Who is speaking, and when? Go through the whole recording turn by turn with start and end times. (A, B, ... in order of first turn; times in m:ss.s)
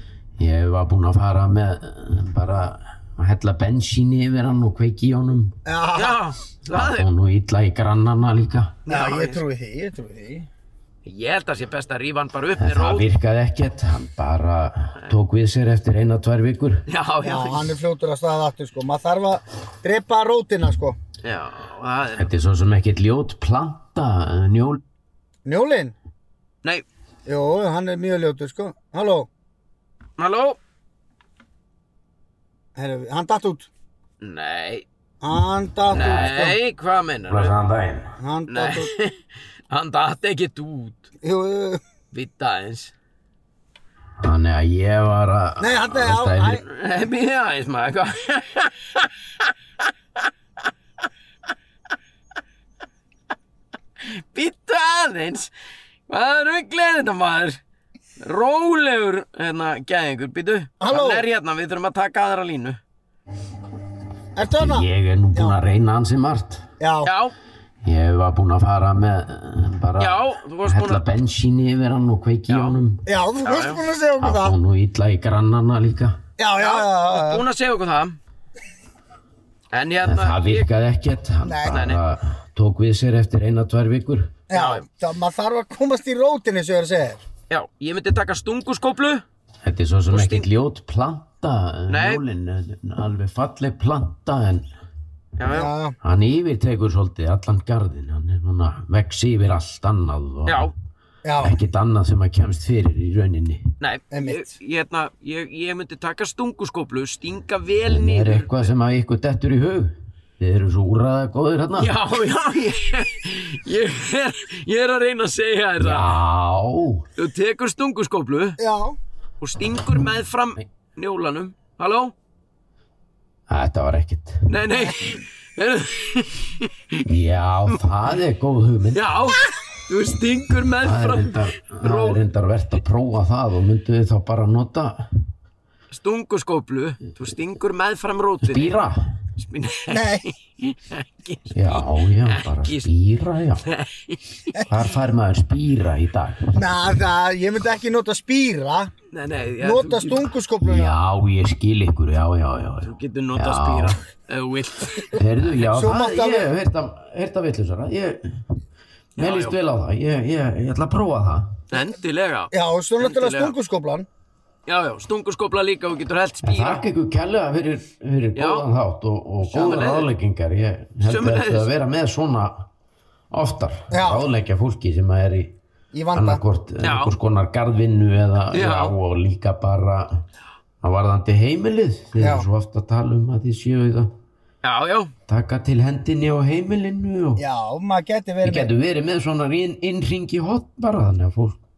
0:00.4-0:05.6 A
0:05.6-0:06.2 B
0:06.0-0:07.1 C
0:06.7-0:08.8 A
0:08.9-0:09.4 C
0:08.9-0:10.5 B
0:11.0-0:13.1 C
0:12.6-0:16.8 A
0:16.9-0:17.8 C
0:17.2-0:21.0 B
0:21.2-0:22.3 C
0:22.1-0:24.8 A
0:25.4-0:26.0 B
0:27.3-0:29.3 B
0:30.2-0:30.6 C
0:32.8-0:33.7 B
0:34.2-0:34.9 C
0:35.2-0:36.6 B
0:35.9-0:36.4 A
0:35.9-0:37.6 C
0:37.3-0:38.1 A
0:38.2-0:38.9 B
0:38.5-0:39.2 C
0:39.7-0:41.1 C
0:41.2-0:41.8 B
0:42.1-0:42.9 C
0:44.2-0:46.6 A
0:45.6-0:46.6 B
0:46.6-0:49.1 C
0:54.0-0:55.5 C
0:56.1-0:57.6 C
0:58.2-1:02.8 C
1:00.8-1:01.3 B
1:04.4-1:05.6 B
1:04.5-1:06.6 A
1:06.8-1:07.1 B
1:07.0-1:07.4 C
1:07.8-1:13.0 A
1:10.0-1:11.1 C
1:12.5-1:12.8 C
1:13.1-1:14.6 B
1:13.4-1:13.8 C
1:14.2-1:16.2 A
1:16.4-1:17.4 B
1:16.6-1:18.2 C
1:19.7-1:20.7 C
1:20.0-1:24.4 A
1:21.4-1:21.9 B
1:21.7-1:22.0 C
1:24.5-1:27.2 B
1:24.5-1:24.9 C
1:27.5-1:29.2 C
1:29.6-1:34.7 A
1:30.1-1:30.5 C
1:31.9-1:32.2 C
1:35.4-1:35.7 C
1:35.4-1:36.0 B
1:36.0-1:40.7 A
1:40.5-1:40.7 C
1:41.2-1:41.6 B
1:41.4-1:43.7 A
1:43.8-1:48.7 C
1:44.1-1:44.5 B
1:47.9-1:51.9 A
1:51.8-1:56.2 C
1:55.8-1:57.1 A
1:57.2-1:58.6 C
1:58.6-1:59.0 B
1:59.4-2:02.1 C
2:03.5-2:04.4 A
2:04.5-2:07.0 C
2:04.8-2:05.2 B
2:07.1-2:09.0 A
2:08.9-2:12.2 C
2:10.8-2:15.1 A
2:15.9-2:18.8 C
2:18.4-2:19.2 A
2:19.4-2:22.9 C
2:19.9-2:20.3 B
2:21.5-2:23.7 A
2:23.6-2:24.6 C
2:24.6-2:26.6 A
2:26.5-2:28.9 B
2:29.1-2:30.3 C
2:29.6-2:31.0 B
2:30.6-2:34.0 A
2:32.8-2:35.2 C
2:35.1-2:38.4 A
2:35.6-2:36.5 B
2:39.2-2:39.6 C
2:39.2-2:41.6 A
2:41.7-2:43.6 C
2:42.5-2:44.1 B
2:44.7-2:46.8 C
2:46.4-2:52.7 A
2:48.4-2:48.7 C
2:49.4-2:50.1 C
2:51.0-2:51.7 C
2:53.3-2:55.6 A
2:53.9-2:54.3 B
2:55.9-2:56.4 B
2:56.1-3:00.2 A
2:56.8-2:57.2 C
2:58.5-2:59.0 C
3:00.8-3:04.1 A
3:02.2-3:02.5 B
3:04.6-3:05.2 C
3:05.3-3:07.4 A
3:07.4-3:08.7 B
3:08.4-3:11.6 A